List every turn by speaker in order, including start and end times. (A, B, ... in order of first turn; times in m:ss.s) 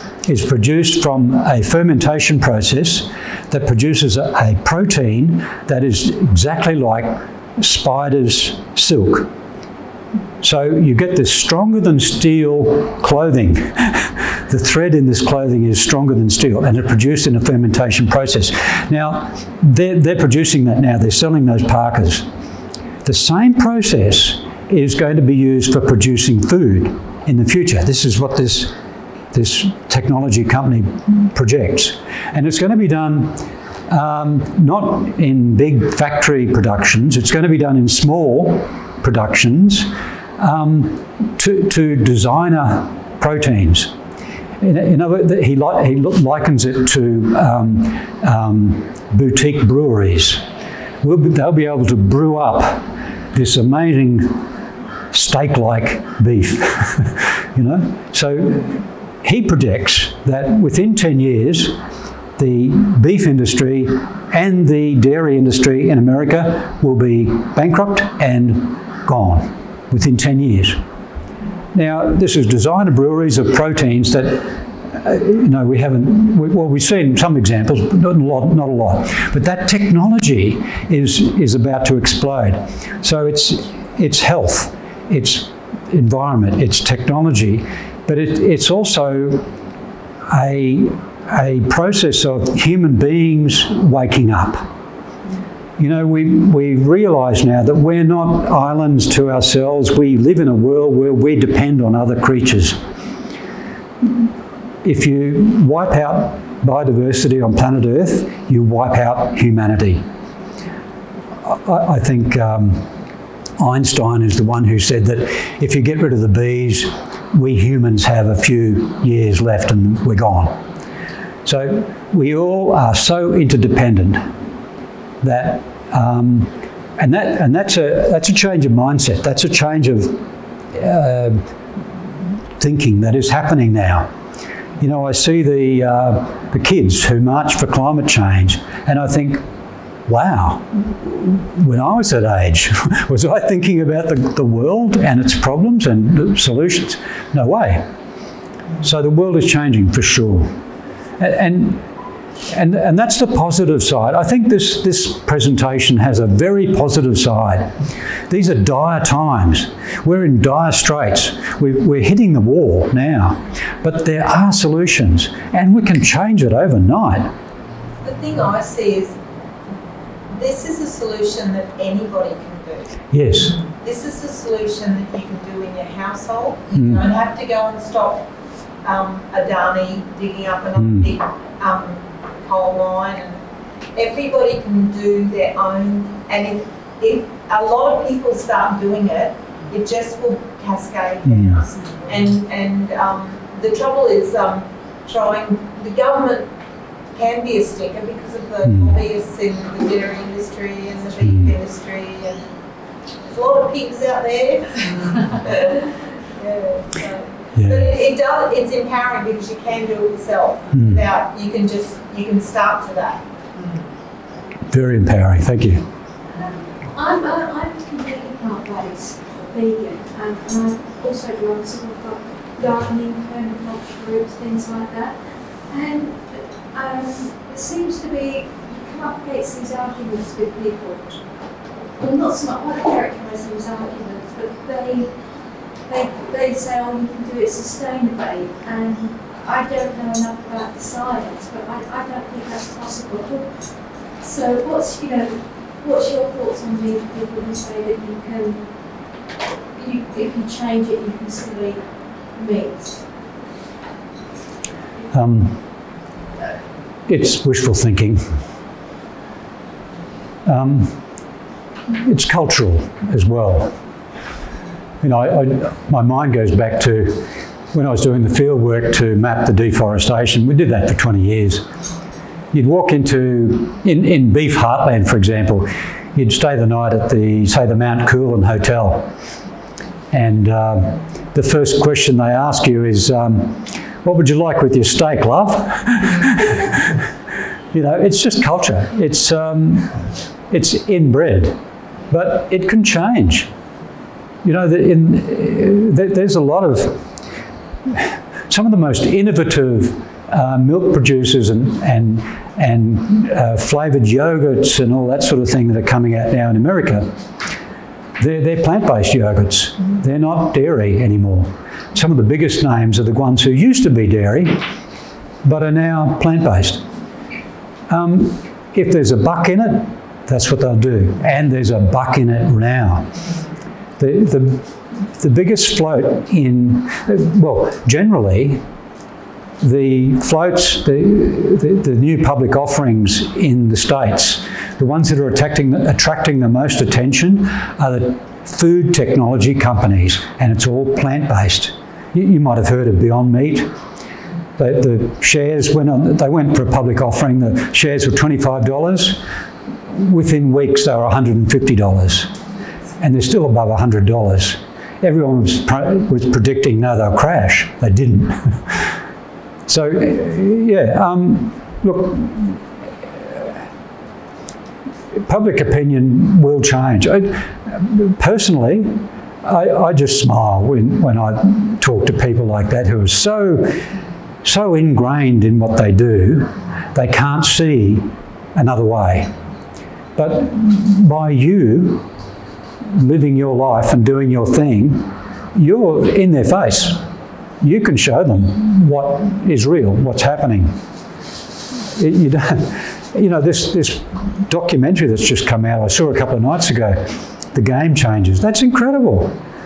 0:00.2-0:09.3 A
0:10.4-0:22.2 A
0:23.0-0:28.7 A
0:29.3-0:43.9 A
0:44.6-0:50.4 A
0:51.0-0:54.4 A
0:55.1-1:01.8 A
1:02.4-1:10.8 A
1:11.7-1:29.5 A
1:30.3-1:34.6 A
1:35.8-1:42.8 A
1:44.8-1:50.0 A
1:51.4-1:52.9 A
1:53.6-2:00.6 A
2:01.4-2:04.2 A
2:05.2-2:11.4 A
2:12.6-2:14.1 A
2:14.8-2:19.4 A
2:20.1-2:27.8 A
2:28.8-2:30.5 A
2:31.2-2:31.9 A
2:32.5-2:37.7 A
2:38.3-2:47.3 A
2:48.0-2:49.2 B
2:50.3-2:53.0 B
2:53.1-2:53.5 A
2:53.6-2:58.3 B
2:56.8-2:57.0 A
2:58.8-3:03.4 B
3:00.8-3:01.1 A
3:04.0-3:16.5 B
3:11.2-3:11.6 A
3:17.1-3:22.5 B
3:18.6-3:19.0 A
3:21.2-3:21.6 A
3:23.2-3:33.2 B
3:27.5-3:27.9 A
3:30.7-3:31.0 A
3:34.7-3:35.9 A
3:36.4-3:51.2 C
3:52.0-4:08.7 C
4:09.8-4:13.0 C
4:15.1-4:15.6 A
4:17.1-4:18.4 A
4:20.4-4:21.0 A
4:21.9-4:23.8 A
4:25.0-4:31.6 A
4:32.5-4:39.1 A
4:40.1-4:47.0 A
4:47.7-4:51.6 A
4:52.1-4:53.5 A
4:54.4-4:57.0 A
4:57.9-5:07.1 A
5:08.2-5:14.6 A
5:15.4-5:16.8 A
5:17.9-5:23.1 A
5:24.0-5:28.6 A
5:29.6-5:43.7 A
5:44.6-5:49.2 A
5:49.9-5:52.3 A
5:53.0-5:59.0 A
5:59.7-6:02.6 A
6:05.1-6:13.8 A
6:14.4-6:19.3 A
6:20.1-6:22.1 A
6:22.9-6:27.0 A
6:27.6-6:30.8 A
6:31.9-6:39.4 A